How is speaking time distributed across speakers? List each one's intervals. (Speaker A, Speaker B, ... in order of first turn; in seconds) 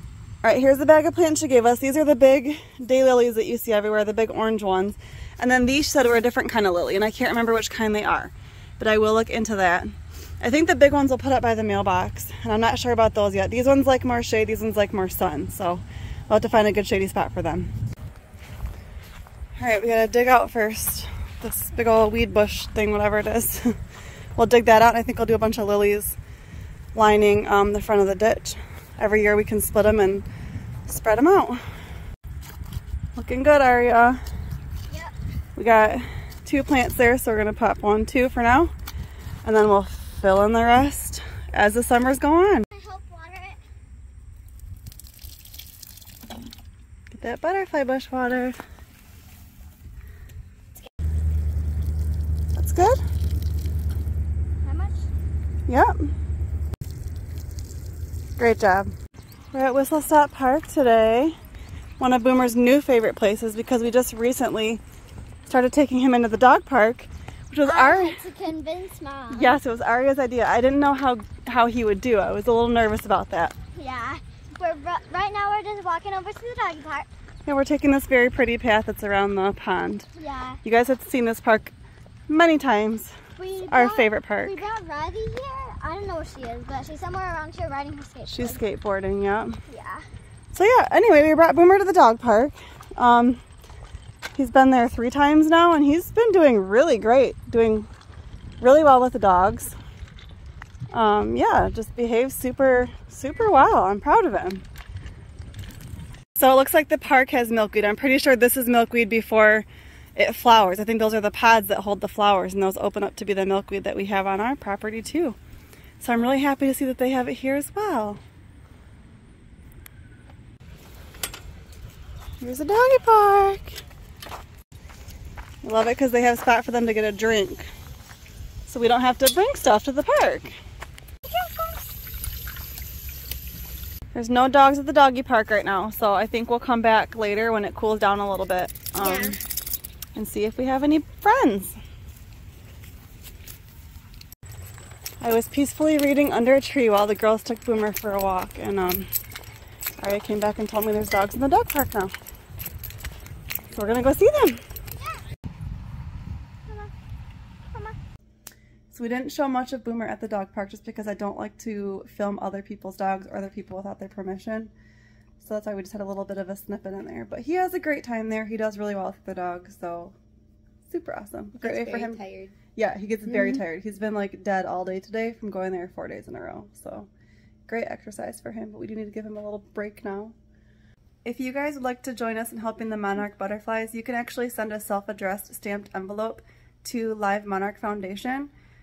Speaker A: 0.4-17.7, 19.6-23.7, 24.4-26.2, 26.9-30.2, 30.9-31.6, 33.1-34.2, 35.5-38.7, 39.4-42.7, 47.1-48.6, 52.5-53.0, 55.7-55.9, 58.4-58.9, 59.5-61.4, 62.0-64.8, 65.5-68.2, 69.3-73.5, 77.5-80.1, 80.6-81.7, 82.3-83.1, 83.7-84.6, 88.3-89.6, 90.5-93.4, 94.3-97.9, 98.6-99.8, 100.9-104.6, 106.4-115.4, 116.0-118.2, 122.4-123.8, 125.6-127.7, 128.7-130.5, 134.1-139.4, 140.1-141.8, 145.2-149.1, 150.0-152.1, 153.7-154.6, 158.9-164.7, 165.4-170.1, 170.9-172.2, 172.7-177.1, 177.7-180.3, 181.2-188.5
Speaker B: 34.9-35.1, 42.7-43.6, 54.6-55.1, 67.6-69.5, 73.7-77.1, 80.1-80.6, 83.4-88.6, 89.7-90.0, 131.3-131.8, 139.0-139.3, 154.9-155.2, 156.7-156.9, 157.7-157.9, 171.6-172.6